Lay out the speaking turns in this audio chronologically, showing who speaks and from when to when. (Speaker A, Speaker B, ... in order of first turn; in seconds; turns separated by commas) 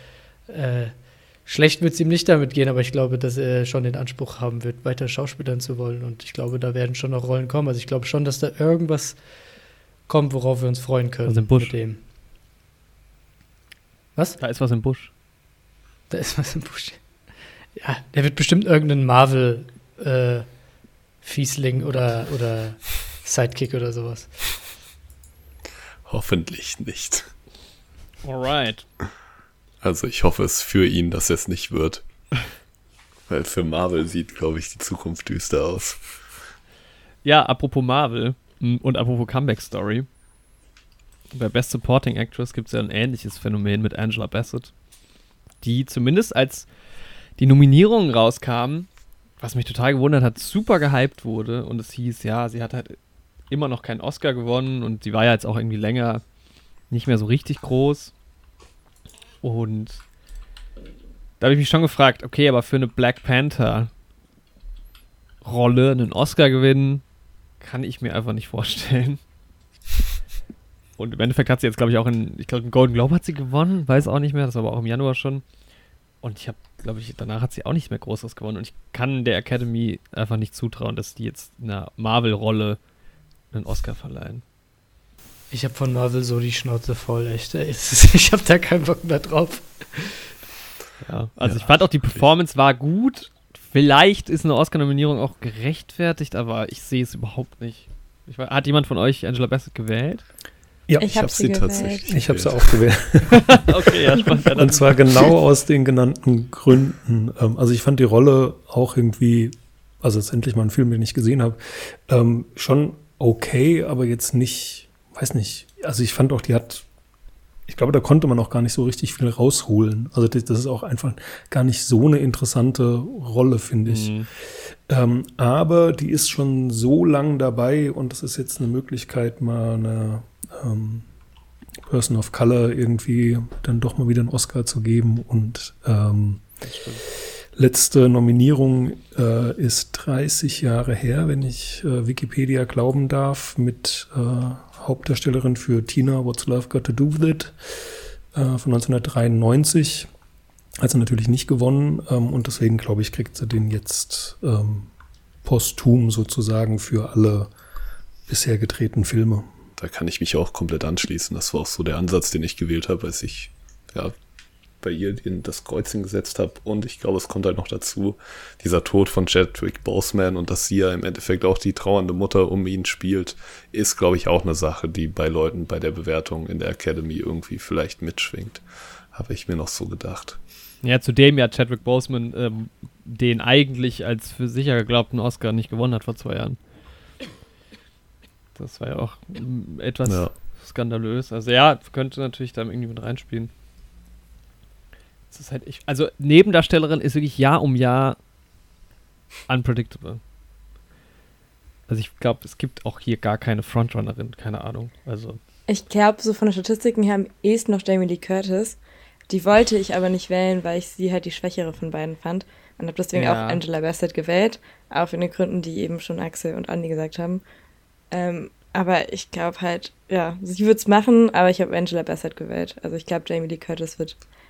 Speaker A: 0.5-9.2, Speaker A: 10.1-12.0, Speaker B: 11.3-11.7, Speaker B: 14.4-15.1, Speaker A: 16.1-17.1, Speaker A: 17.8-20.5, Speaker A: 21.2-24.4, Speaker C: 26.0-27.3, Speaker B: 28.2-28.9, Speaker C: 29.8-32.0, Speaker C: 33.3-36.0, Speaker B: 37.2-40.1, Speaker B: 41.3-44.7, Speaker B: 45.6-46.7, Speaker B: 47.4-53.0, Speaker B: 53.5-56.2, Speaker B: 56.9-58.1, Speaker B: 59.4-60.0, Speaker B: 61.4-63.9, Speaker B: 65.4-67.0, Speaker B: 67.6-69.2, Speaker B: 71.0-75.4, Speaker B: 76.2-82.8, Speaker B: 83.5-84.4, Speaker A: 85.5-90.3, Speaker B: 91.0-100.2, Speaker C: 91.4-92.2, Speaker D: 100.9-103.6, Speaker E: 101.0-102.1, Speaker C: 101.2-102.6, Speaker B: 103.5-105.2, Speaker D: 104.5-116.8, Speaker D: 117.7-131.1, Speaker B: 123.9-124.3, Speaker D: 131.8-136.4, Speaker B: 136.6-137.0, Speaker D: 137.5-147.6, Speaker D: 148.3-150.1, Speaker D: 150.8-154.9, Speaker D: 155.4-157.5, Speaker D: 158.3-159.5, Speaker C: 159.8-164.1, Speaker C: 164.8-180.4, Speaker B: 180.8-186.6, Speaker B: 188.6-193.5, Speaker C: 190.0-190.3, Speaker B: 195.3-198.2, Speaker B: 199.5-200.2, Speaker B: 201.9-205.4, Speaker E: 205.7-208.8, Speaker E: 209.3-217.4, Speaker B: 213.1-213.6, Speaker E: 218.1-224.2